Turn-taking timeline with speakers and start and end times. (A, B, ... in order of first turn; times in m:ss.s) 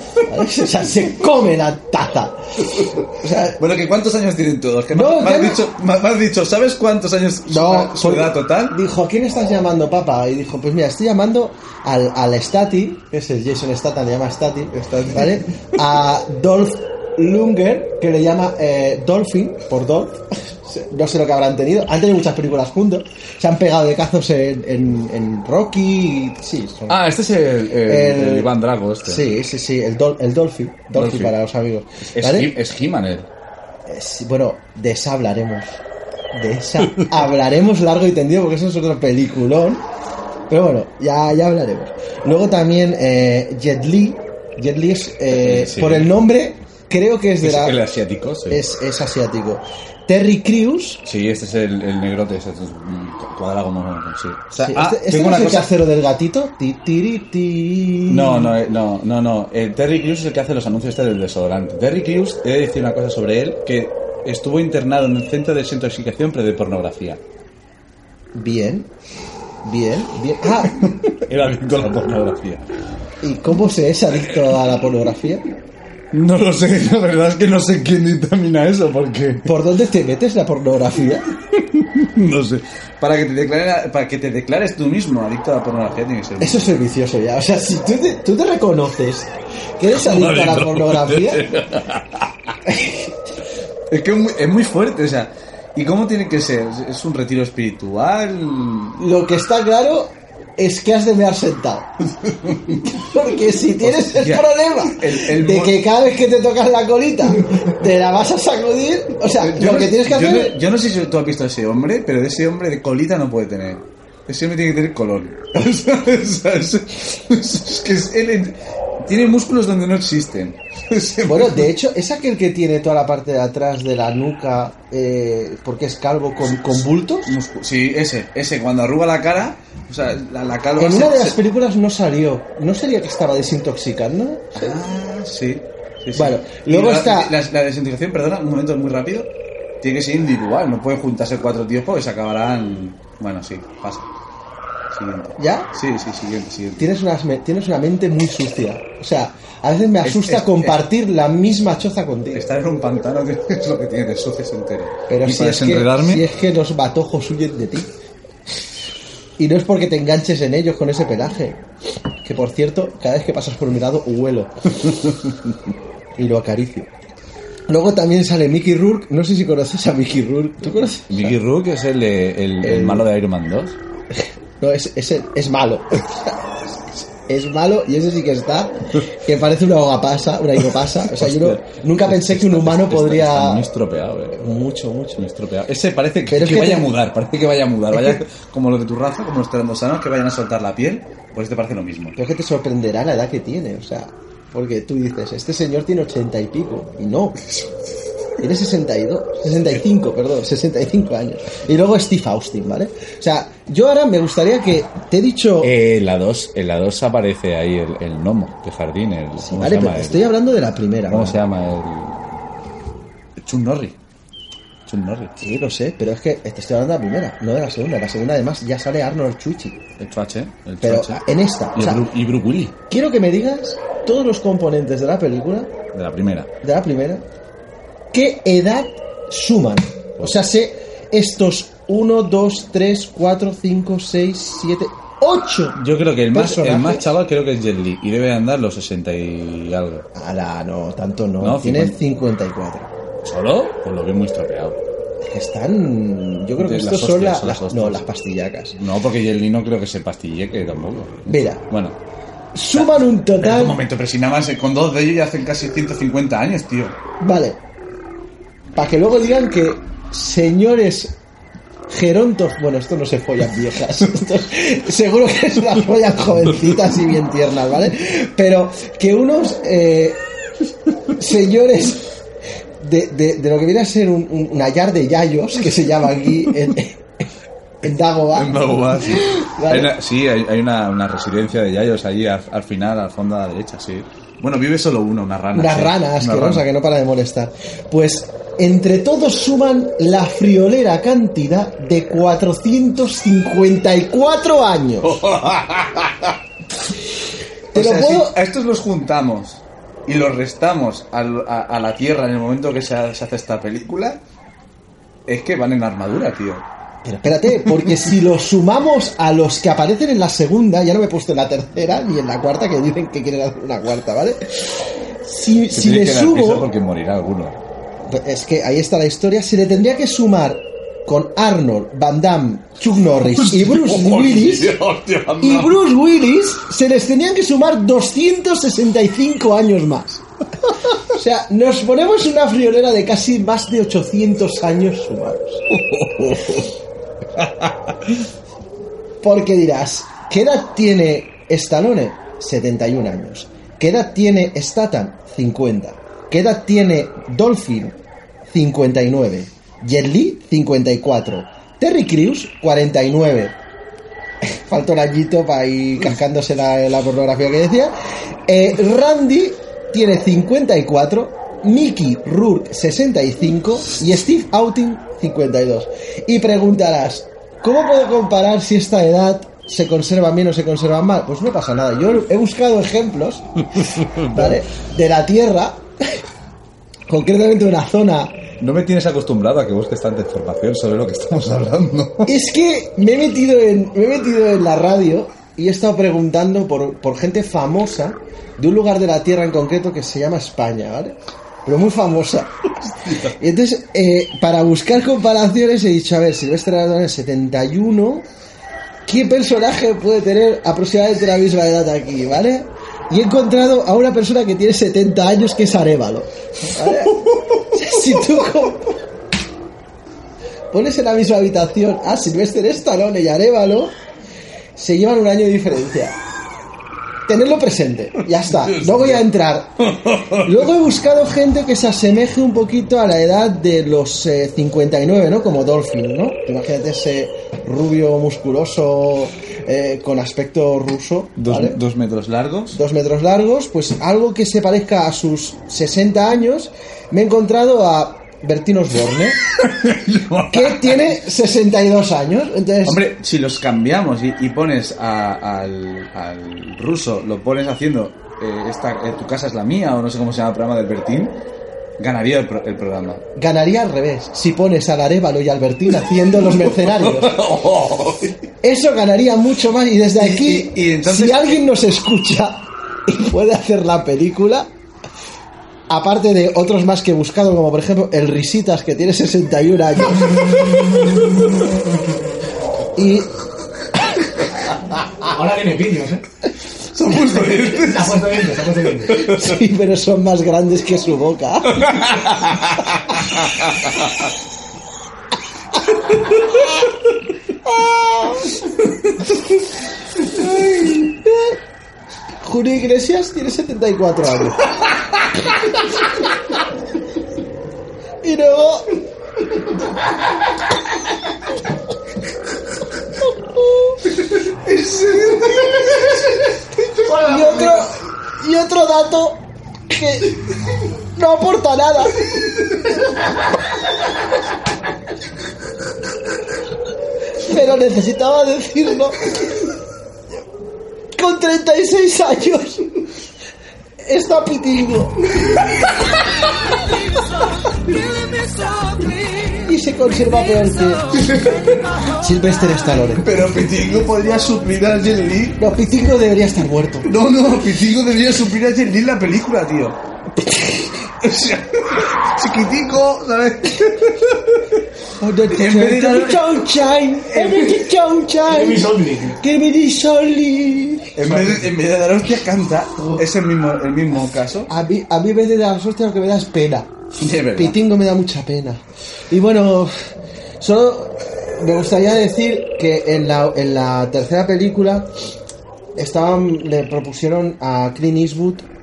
0:00.2-0:03.6 A
0:03.6-0:08.8 B
0:04.9-0:05.6 A
0:07.5-0:27.0 A
0:14.7-0:15.8 B
0:26.9-0:29.2 B
0:27.8-0:28.5 A
0:29.0-0:32.5 A
0:30.9-0:31.3 B
0:32.1-0:33.3 B
0:33.9-0:39.8 A
0:40.5-0:47.8 A
0:45.3-0:46.1 B
0:47.4-0:48.6 B
0:48.5-0:51.0 A
0:51.0-0:55.7 B
0:54.6-0:58.6 A
0:58.1-1:07.2 B
1:08.3-1:08.9 A
1:09.6-1:10.8 A
1:10.6-1:12.6 B
1:13.2-1:15.5 A
1:16.1-1:19.6 B
1:19.4-1:21.3 A
1:21.5-1:26.8 B
1:26.4-1:31.5 A
1:29.9-1:32.5 B
1:32.6-1:33.1 A
1:33.9-1:39.0 B
1:39.0-1:41.9 A
1:42.2-1:43.0 B
1:42.9-1:50.6 A
1:43.8-1:45.8 B
1:49.4-2:01.7 B
2:01.2-2:07.4 A
2:06.5-2:11.4 B
2:10.8-2:14.8 A
2:14.6-2:19.3 B
2:16.1-2:17.4 A
2:19.8-2:24.1 B
2:24.9-2:26.9 B
2:25.4-2:25.7 A
2:26.8-2:32.5 A
2:30.0-2:30.8 B
2:32.3-2:36.2 B
2:35.1-2:37.9 A
2:39.4-2:41.6 A
2:42.2-2:44.5 A
2:44.8-2:45.3 B
2:46.2-2:46.9 A
2:47.7-2:51.4 A
2:51.1-2:53.8 B
2:52.6-2:53.1 A
2:54.1-2:56.3 A
2:57.3-3:03.7 A
3:01.1-3:04.4 B
3:04.4-3:05.3 A
3:05.2-3:12.2 B
3:06.3-3:06.9 A
3:07.9-3:08.2 A
3:12.2-3:17.4 A
3:17.4-3:17.7 B
3:18.4-3:25.8 A
3:25.6-3:30.3 B
3:29.4-3:31.4 A
3:31.1-3:32.2 B
3:33.4-3:34.0 B
3:34.9-3:35.4 B
3:35.4-3:39.8 A
3:40.0-3:42.8 B
3:40.8-3:42.1 A
3:42.9-3:45.7 A
3:45.9-3:46.5 B
3:46.6-3:47.2 A
3:48.1-3:55.8 A
3:55.8-4:00.1 B
3:56.3-3:57.1 A
4:00.2-4:02.9 A
4:01.4-4:02.0 B
4:03.2-4:04.8 B
4:05.2-4:08.8 A
4:06.6-4:08.1 B
4:08.7-4:12.0 B
4:11.3-4:11.6 A
4:12.5-4:13.8 A
4:12.7-4:17.0 B
4:17.2-4:17.6 A
4:18.7-4:21.2 A
4:21.9-4:30.2 A
4:31.2-4:32.0 A
4:32.8-4:37.0 A
4:37.8-4:39.9 A
4:38.3-4:46.7 B
4:45.5-4:55.2 A
4:55.0-4:56.4 B
4:57.7-4:58.4 A
4:57.7-5:04.2 B
5:05.3-5:06.6 B
5:07.0-5:14.6 A
5:15.2-5:16.7 A
5:15.7-5:17.6 B
5:18.1-5:24.7 A
5:23.2-5:25.8 B
5:25.4-5:30.2 A
5:31.1-5:35.6 A
5:35.7-5:36.7 B
5:37.4-5:38.0 B
5:39.2-5:53.6 A
5:54.4-5:57.9 A
5:58.5-6:13.5 A
6:13.8-6:14.6 B
6:14.3-6:16.2 A
6:17.1-6:18.4 A
6:18.6-6:22.3 B
6:22.2-6:32.5 A
6:32.8-6:33.4 B
6:33.2-6:38.3 A
6:39.1-6:49.0 A
6:50.7-6:54.0 A
6:54.8-6:56.2 A
6:57.3-6:59.8 A
6:58.3-6:59.3 B
6:59.8-7:00.6 B
7:00.4-7:11.8 A
7:11.4-7:12.8 B
7:12.7-7:19.4 A
7:19.6-7:21.1 B
7:20.5-7:23.0 A
7:22.8-7:31.4 B
7:32.0-7:33.2 B
7:33.4-7:37.4 A
7:36.5-7:38.4 B
7:38.6-7:44.7 A
7:40.2-7:41.6 B
7:45.9-7:51.2 A
7:53.0-7:53.3 A
7:55.2-7:56.2 C
7:56.9-7:58.4 B
7:57.6-7:59.3 C
7:59.1-7:59.5 B
7:59.2-8:02.1 A
8:01.7-8:04.2 B
8:07.7-8:08.6 A
8:10.3-8:11.0 B
8:10.4-8:11.6 A
8:12.4-8:14.7 A
8:18.2-8:18.9 A
8:23.2-8:24.0 A
8:24.3-8:27.7 B
8:27.0-8:30.4 A
8:31.1-8:32.2 A
8:37.4-8:39.3 A
8:41.1-8:42.9 A
8:44.0-8:45.3 A
8:49.4-8:51.2 A
8:51.1-8:51.9 B
8:52.2-8:53.3 A
8:53.2-8:55.6 B
8:55.6-8:57.1 A
8:57.0-9:00.0 B
9:00.4-9:01.0 A
9:01.2-9:04.8 B
9:05.2-9:11.3 A
9:05.5-9:06.7 B
9:07.3-9:07.9 B
9:08.4-9:09.4 C
9:11.2-9:14.7 B
9:14.7-9:16.9 A
9:17.2-9:17.8 B
9:17.5-9:19.9 A
9:20.6-9:25.1 A
9:26.0-9:28.7 A